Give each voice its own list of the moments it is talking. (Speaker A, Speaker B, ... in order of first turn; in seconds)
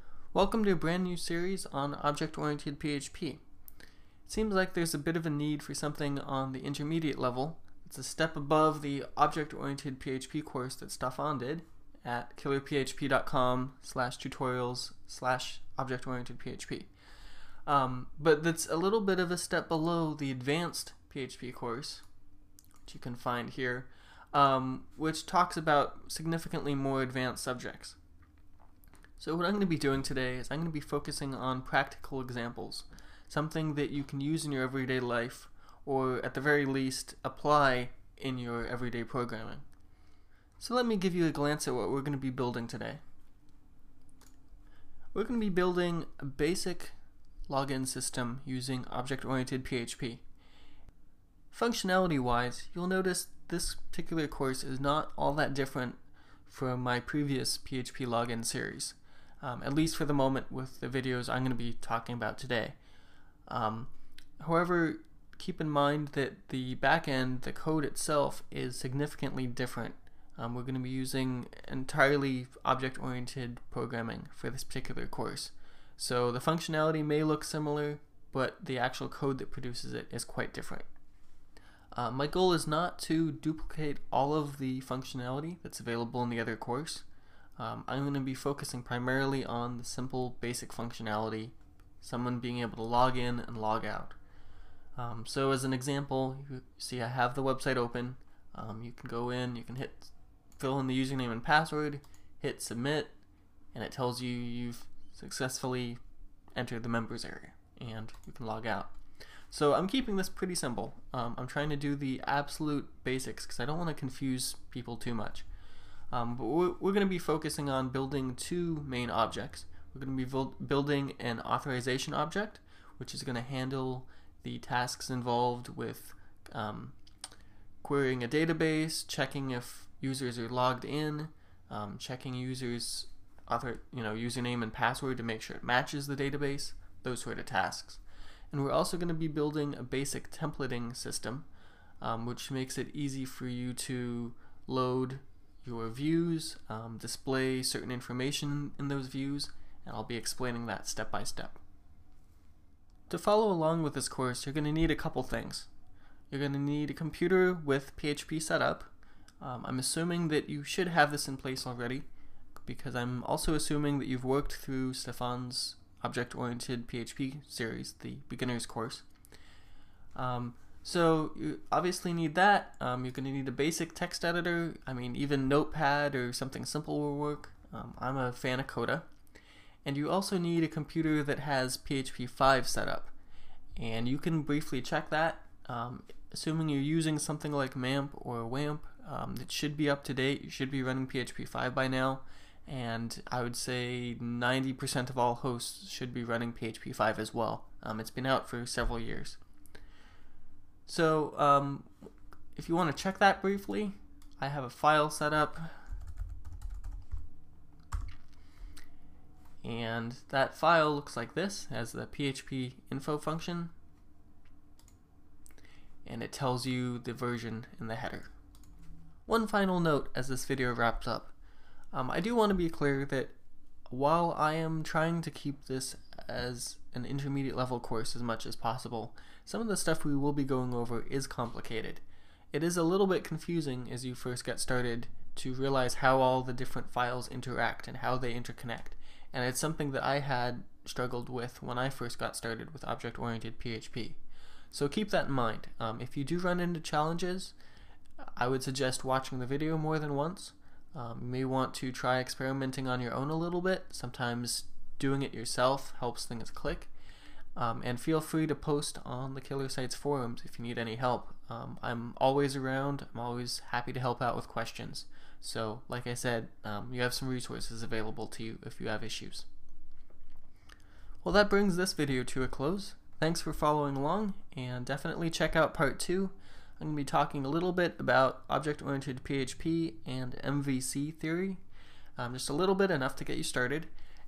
Speaker A: 0.3-3.4, 4.2-16.9, 17.6-22.0, 22.8-28.0, 29.2-39.6, 40.6-43.0, 45.1-46.9, 47.5-50.2, 51.5-62.8, 63.5-80.9, 81.9-87.0, 87.6-94.2, 95.0-103.1, 103.7-106.0, 106.5-108.9, 109.5-115.5, 116.1-126.9, 127.8-141.5, 142.0-151.6, 153.1-155.7, 156.3-162.1, 162.6-169.1, 170.1-179.1, 179.8-183.1, 183.8-199.4, 200.9-205.7, 209.6-213.7, 216.0-218.3, 219.2-221.3, 221.9-223.3, 223.9-232.0, 232.5-244.2, 244.7-247.5, 248.2-256.9, 257.6-269.4, 271.2-281.6, 282.2-283.9